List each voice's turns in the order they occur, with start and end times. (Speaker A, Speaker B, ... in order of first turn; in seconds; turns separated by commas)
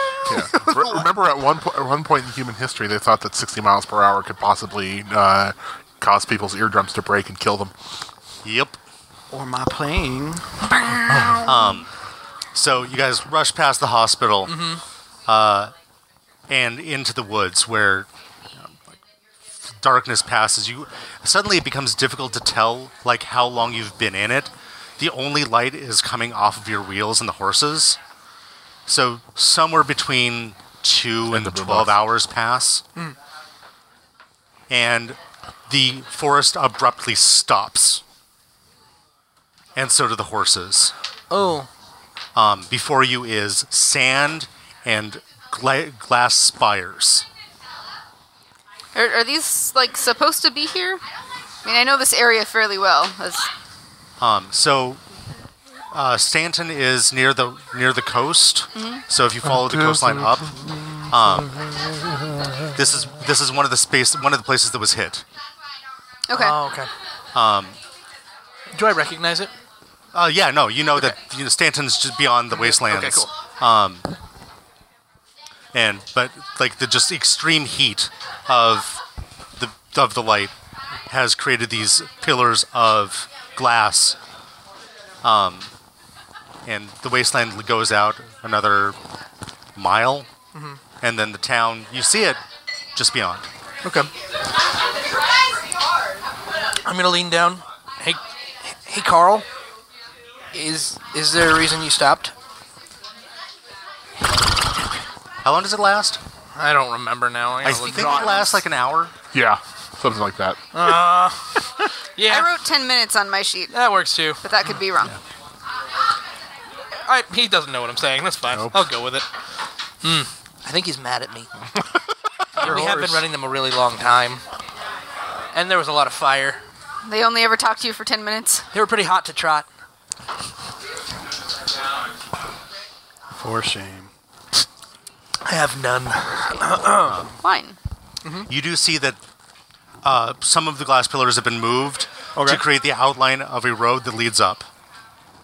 Speaker A: 0.3-7.7, Speaker B: 0.4-1.0, Speaker C: 8.4-8.8, Speaker D: 9.3-11.4, Speaker A: 11.1-11.4, Speaker C: 11.4-11.9, Speaker C: 12.5-14.6, Speaker B: 14.5-14.8, Speaker C: 15.3-15.7, Speaker C: 16.5-18.1, Speaker C: 19.8-28.0, Speaker C: 28.9-32.8, Speaker A: 31.3-31.9, Speaker C: 34.7-38.0, Speaker C: 39.8-40.9, Speaker B: 41.3-41.7, Speaker C: 42.3-47.3, Speaker E: 48.9-51.0, Speaker E: 51.6-53.5, Speaker C: 54.2-55.0, Speaker C: 55.9-61.5, Speaker E: 58.7-59.0, Speaker C: 62.7-65.2, Speaker E: 66.3-66.6, Speaker B: 66.3-66.9, Speaker C: 67.3-67.8, Speaker B: 68.7-69.5, Speaker C: 70.1-74.1, Speaker B: 72.6-73.3, Speaker C: 75.7-79.0, Speaker C: 79.5-80.5, Speaker C: 81.1-84.2, Speaker C: 85.2-85.7, Speaker C: 86.7-89.0, Speaker C: 89.8-90.3, Speaker B: 90.5-90.8, Speaker C: 91.0-92.4, Speaker C: 92.9-93.4, Speaker B: 93.8-94.1, Speaker B: 96.8-99.5, Speaker B: 100.5-102.3, Speaker C: 105.4-106.2, Speaker B: 106.5-108.6, Speaker C: 107.6-109.1, Speaker A: 109.3-110.6, Speaker B: 110.7-111.6, Speaker B: 112.2-112.5, Speaker E: 112.2-113.7, Speaker B: 113.7-114.4, Speaker E: 114.4-115.2, Speaker B: 117.0-119.3, Speaker B: 120.0-121.5, Speaker B: 122.5-124.4, Speaker D: 122.6-123.2, Speaker B: 125.5-126.6, Speaker E: 127.0-128.7, Speaker B: 128.7-129.7, Speaker D: 133.4-134.1, Speaker B: 135.4-137.2, Speaker C: 137.0-137.3, Speaker E: 137.4-137.8, Speaker B: 138.2-138.5, Speaker C: 138.5-139.2, Speaker C: 140.0-144.7, Speaker D: 142.3-142.6